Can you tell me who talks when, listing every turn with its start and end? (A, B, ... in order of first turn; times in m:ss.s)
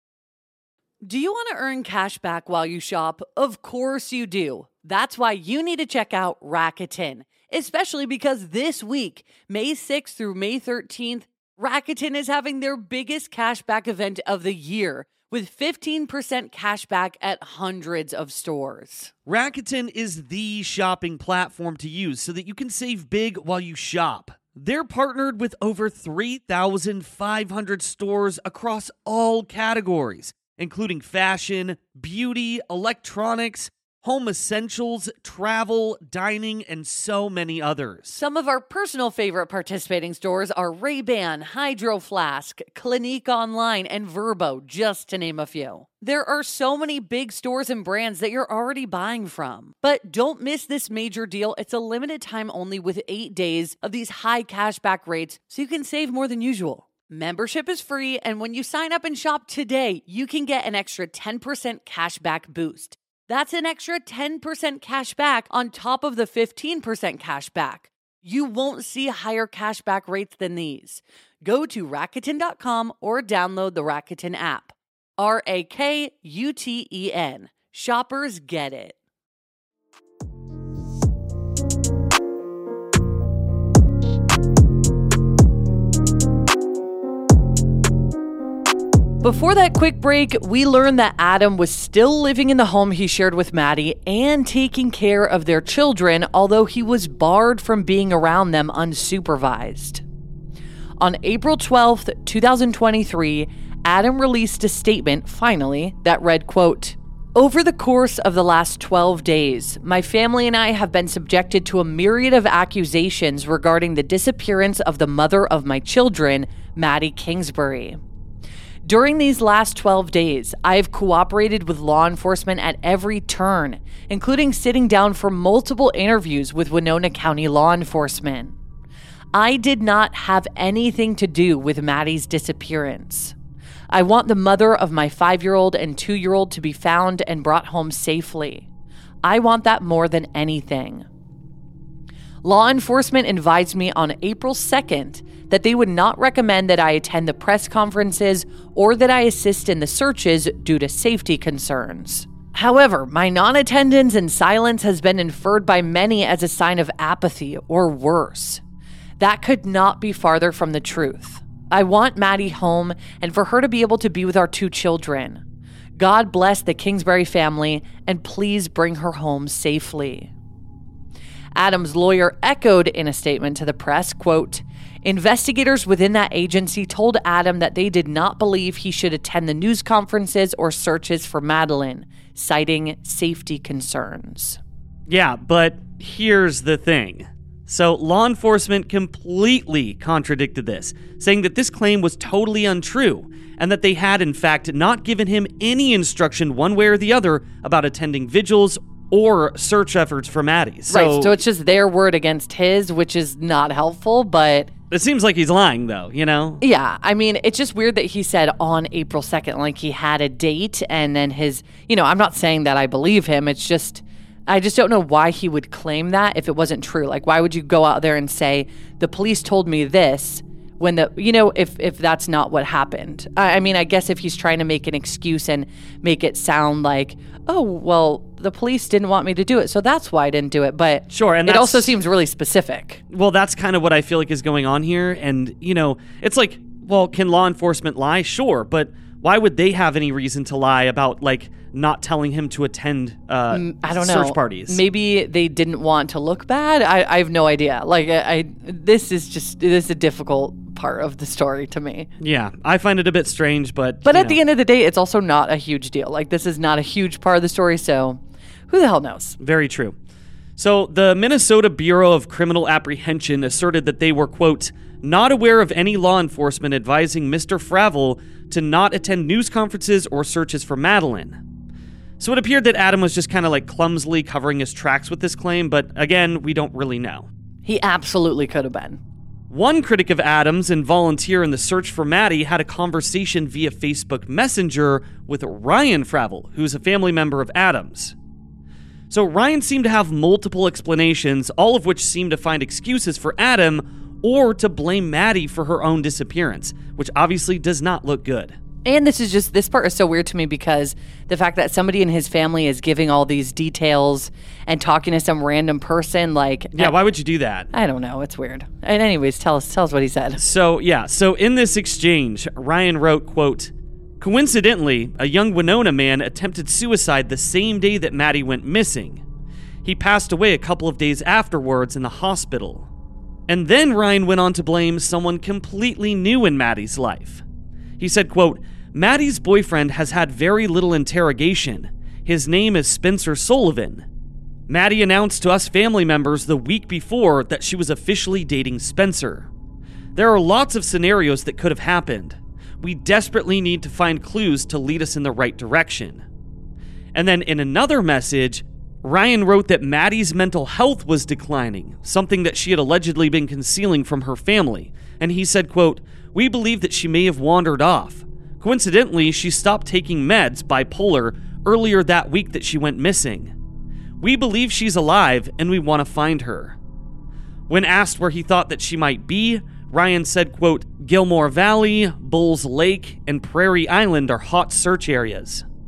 0:01.0-0:19.1 A
0:19.3-0:38.2 B
0:38.1-1:19.0 A
1:29.2-1:40.0 A
1:41.0-1:58.0 A
1:58.8-2:08.6 A
2:09.3-2:13.4 A
2:13.9-2:18.7 A
2:19.2-2:21.1 A
2:22.4-2:38.6 A
2:39.2-2:45.4 A
2:46.0-2:50.3 A
2:51.6-3:04.6 A
3:05.1-3:21.3 B
3:20.9-3:24.7 A
3:24.9-3:26.6 B
3:26.6-3:53.0 A
3:51.1-3:52.0 B
3:53.1-4:04.8 B
4:03.5-4:12.1 A
4:12.2-4:14.4 B
4:14.1-4:19.4 A
4:19.4-4:20.0 B
4:20.6-4:31.4 B
4:32.2-4:37.3 B
4:37.6-4:39.0 A
4:39.5-4:48.2 B
4:49.1-4:58.6 B
4:58.8-5:07.0 A
5:06.7-5:07.7 B
5:07.7-5:10.4 A
5:10.4-5:19.2 B
5:19.8-5:22.9 B
5:23.5-5:27.4 B
5:28.0-5:34.1 B
5:34.7-5:39.5 B
5:40.2-5:46.2 B
5:47.1-6:03.5 B
6:04.2-6:06.8 B
6:07.7-6:15.7 B